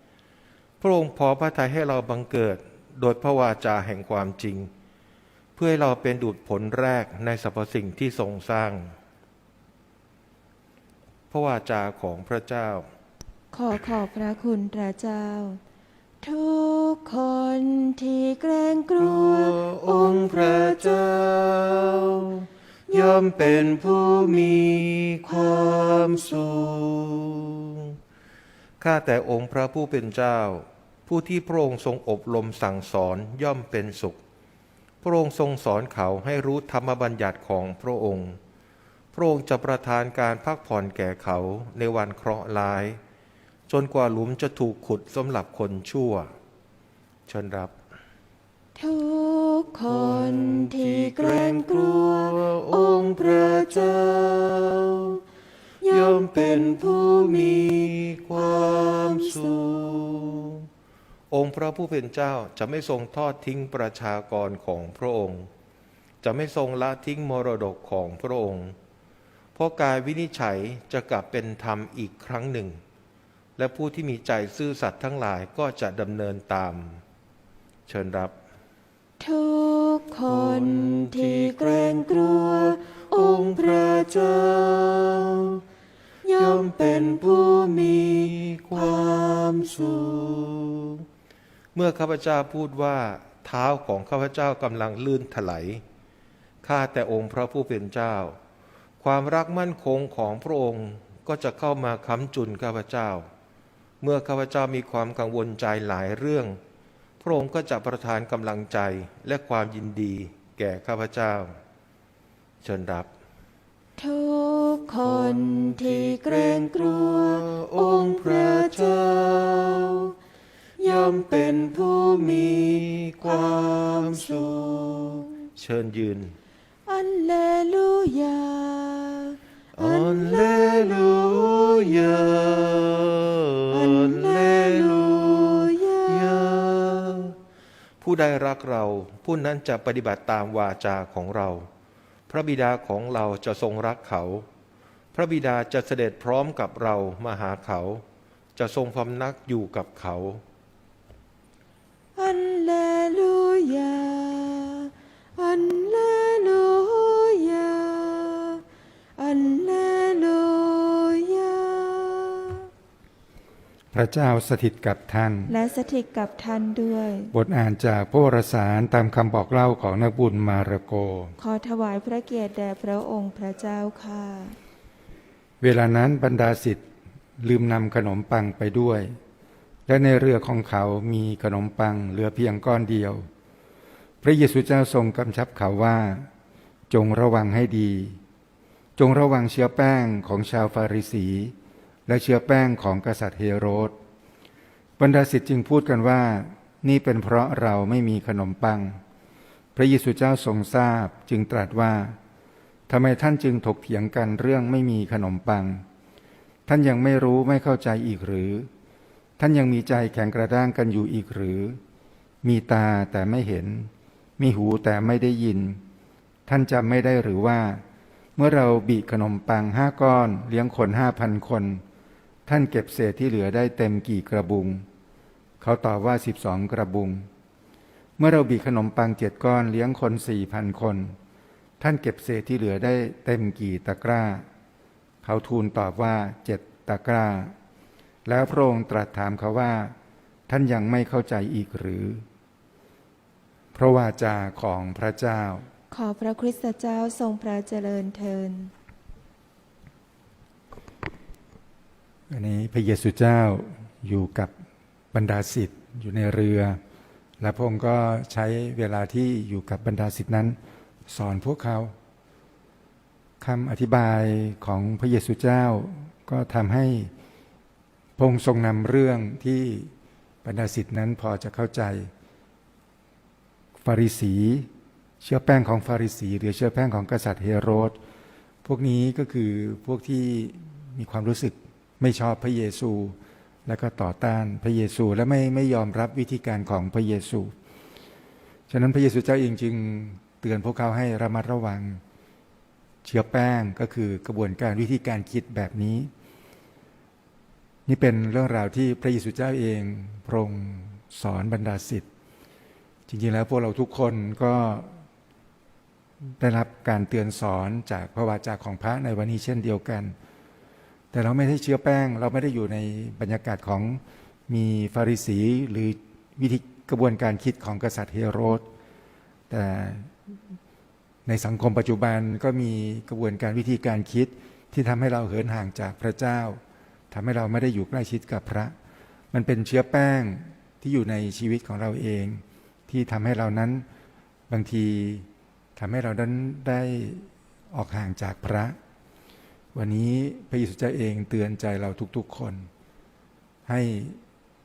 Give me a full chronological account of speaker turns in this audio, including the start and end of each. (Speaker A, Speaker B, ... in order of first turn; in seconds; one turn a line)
Speaker A: 0.8-4.7
Speaker A: 5.5-8.9
Speaker A: 11.3-12.9
Speaker B: 13.5-15.6
Speaker B: 16.2-21.2
Speaker A: 19.0-28.0
Speaker B: 22.9-26.7
Speaker A: 28.8-34.2
Speaker A: 35.0-38.4
Speaker A: 39.1-43.0
Speaker A: 43.7-46.3
Speaker A: 47.3-47.7
Speaker B: 48.7-54.2
Speaker A: 49.9-55.2
Speaker B: 55.8-60.5
Speaker A: 55.9-60.7
Speaker A: 61.3-65.5
Speaker A: 66.2-68.8
Speaker A: 69.5-72.8
Speaker A: 73.6-77.0
Speaker A: 77.9-78.3
Speaker B: 79.2-84.6
Speaker A: 80.3-85.6
Speaker B: 86.2-90.4
Speaker A: 86.3-91.0
Speaker A: 91.7-95.8
Speaker A: 96.6-98.4
Speaker A: 99.0-103.3
Speaker A: 104.0-106.6
Speaker A: 107.2-111.6
Speaker A: 112.6-113.1
Speaker B: 114.0-120.1
Speaker A: 115.0-120.1
Speaker B: 120.8-125.5
Speaker A: 120.8-126.3
Speaker B: 126.9-132.9
Speaker A: 129.8-137.4
Speaker B: 133.7-137.2
Speaker A: 138.0-141.7
Speaker A: 142.3-144.4
Speaker A: 145.1-148.0
Speaker A: 148.6-150.4
Speaker B: 152.2-158.6
Speaker B: 159.2-162.7
Speaker C: 163.9-165.5
Speaker B: 165.5-167.3
Speaker C: 167.3-171.3
Speaker B: 171.4-174.6
Speaker C: 175.6-176.8
Speaker C: 177.4-179.1
Speaker C: 179.9-183.3
Speaker C: 184.2-186.3
Speaker C: 186.9-188.2
Speaker C: 189.0-191.5
Speaker C: 192.1-193.9
Speaker C: 195.0-199.0
Speaker C: 199.8-202.2
Speaker C: 202.9-205.8
Speaker C: 206.7-208.7
Speaker C: 209.4-211.8
Speaker C: 212.4-215.8
Speaker C: 216.5-217.8
Speaker C: 218.4-221.8
Speaker C: 222.4-224.8
Speaker C: 225.6-227.3
Speaker C: 228.2-231.2
Speaker C: 231.8-234.4
Speaker C: 235.2-237.5
Speaker C: 238.2-239.9
Speaker C: 240.5-242.2
Speaker C: 243.7-245.7
Speaker B: 245.9-248.7
Speaker C: 252.3-254.5
Speaker C: 255.1-256.8
Speaker C: 257.4-261.9
Speaker C: 263.4-267.1
Speaker C: 268.2-269.9
Speaker C: 270.4-272.1
Speaker C: 273.8-274.7
Speaker C: 275.2-278.0
Speaker C: 278.6-287.5
Speaker C: 288.7-292.0
Speaker C: 293.0-296.1
Speaker C: 297.9-302.1
Speaker C: 303.1-305.0
Speaker C: 306.4-310.1
Speaker C: 311.1-318.6
Speaker C: 319.5-320.3
Speaker C: 321.2-328.7
Speaker C: 329.3-333.9
Speaker C: 334.5-338.8
Speaker C: 339.7-342.7
Speaker C: 343.7-344.2